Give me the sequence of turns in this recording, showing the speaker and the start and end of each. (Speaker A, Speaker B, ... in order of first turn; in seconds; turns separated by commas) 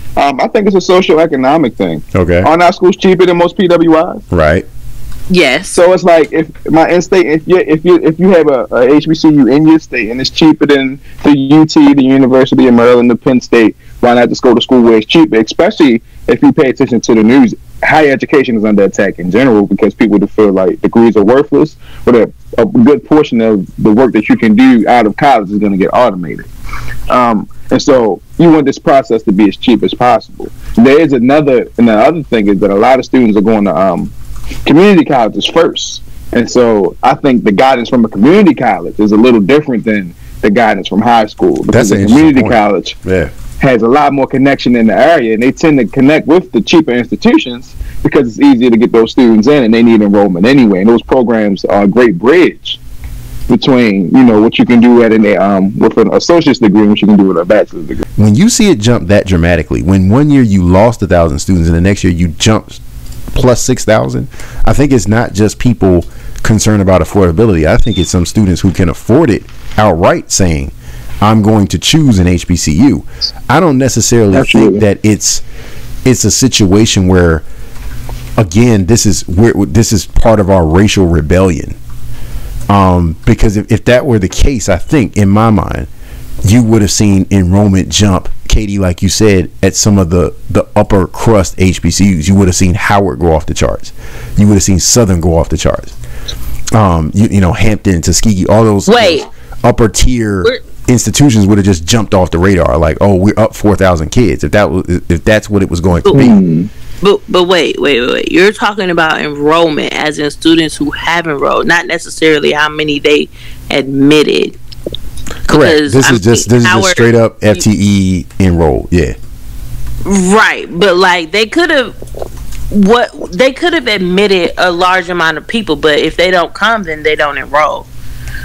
Speaker A: 0.2-4.2, Speaker B: 2.1-2.5, Speaker B: 4.3-4.7, Speaker C: 5.3-5.8, Speaker A: 5.7-26.5, Speaker A: 27.1-34.1, Speaker A: 34.6-43.0, Speaker B: 41.7-43.3, Speaker A: 43.6-52.8, Speaker A: 53.5-58.0, Speaker B: 58.2-62.8, Speaker B: 63.3-75.4, Speaker A: 74.3-74.8, Speaker B: 76.0-77.4, Speaker B: 78.4-81.8, Speaker B: 82.7-85.9, Speaker B: 86.4-95.9, Speaker B: 96.7-106.4, Speaker C: 98.9-99.3, Speaker A: 106.1-106.7, Speaker C: 107.0-114.5, Speaker C: 115.5-117.1, Speaker B: 115.5-119.2, Speaker C: 120.0-122.0, Speaker C: 122.7-127.9